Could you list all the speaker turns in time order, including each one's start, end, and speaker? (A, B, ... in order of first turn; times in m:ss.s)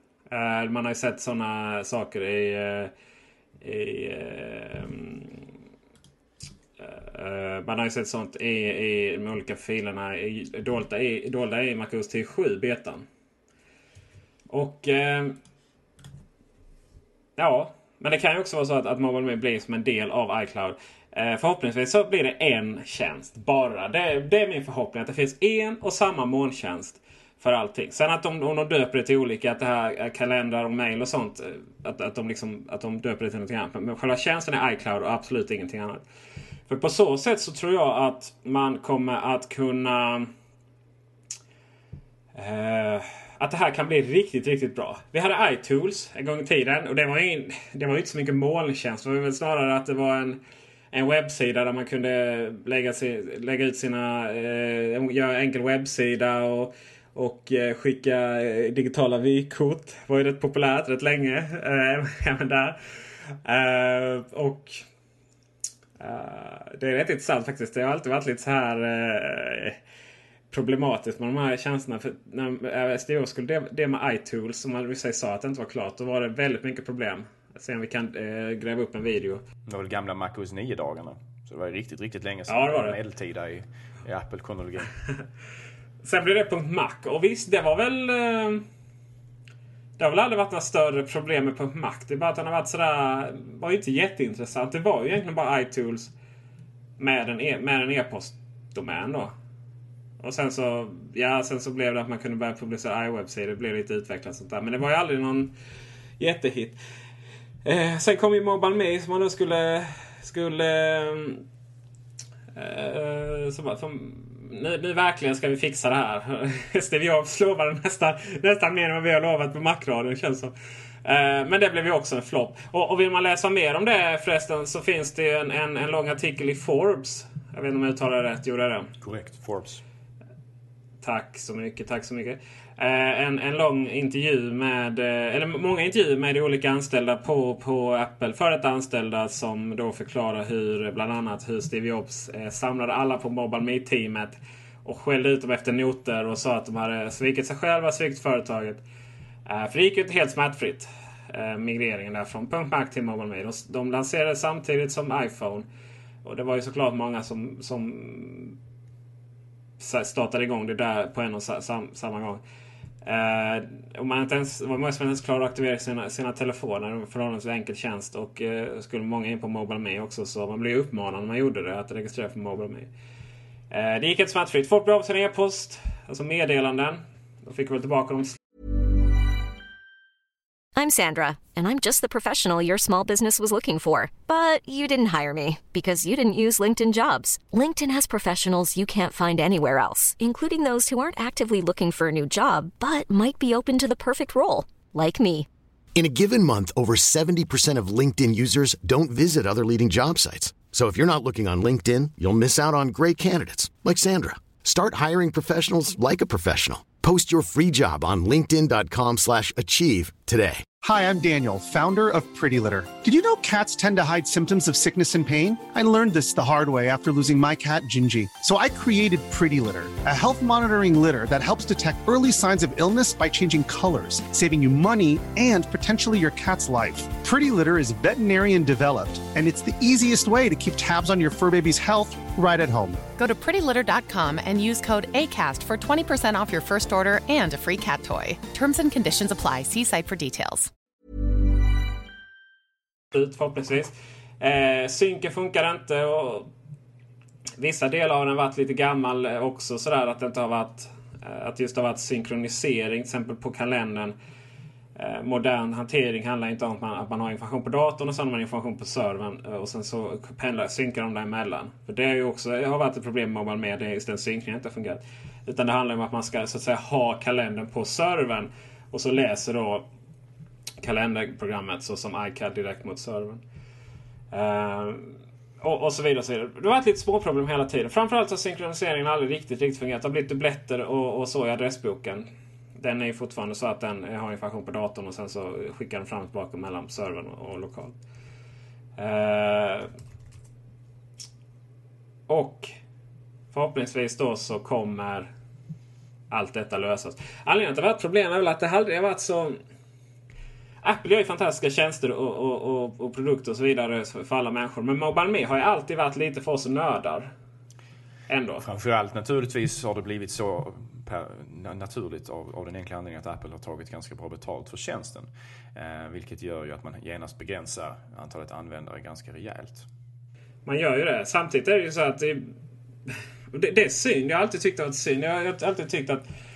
0:00.3-0:02.9 A
0:03.6-0:05.4 A
0:06.8-0:13.0 A
0:14.5-0:15.4 A
0:17.4-0:36.0 A
0:36.7-0:40.3 A
0:42.3-0:50.4 A
0:50.9-1:02.8 A
1:03.4-1:04.8 A
1:06.0-1:09.8 A
1:10.5-1:19.4 A
1:19.6-1:24.9 B
1:22.5-1:23.0 A
1:26.0-1:28.6 A
1:30.0-1:36.1 A
1:37.0-1:39.3 A
1:40.2-1:45.5 A
1:46.2-1:46.8 A
1:47.6-1:51.4 A
1:52.5-2:00.5 A
2:01.0-2:08.9 A
2:09.0-2:09.8 B
2:11.0-2:28.8 A
2:29.4-2:35.7 A
2:36.2-2:38.6 A
2:39.8-2:42.4 A
2:43.0-2:52.9 A
2:53.7-2:58.4 A
3:00.8-3:15.5 C
3:16.0-3:30.6 D
3:30.8-3:53.0 E
3:53.2-4:00.7 F
4:03.1-4:06.5 A
4:07.6-4:14.1 A
4:15.0-4:29.9 A
4:30.8-4:33.4 A
4:34.3-4:42.3 A
4:42.8-4:47.9 A
4:49.0-4:49.9 A
4:52.3-4:52.7 A
4:53.5-4:55.3 A
4:56.3-4:59.6 A
5:00.8-5:07.3 A
5:08.3-5:08.6 A
5:08.6-5:19.8 B
5:20.6-5:22.5 A
5:23.5-5:26.2 A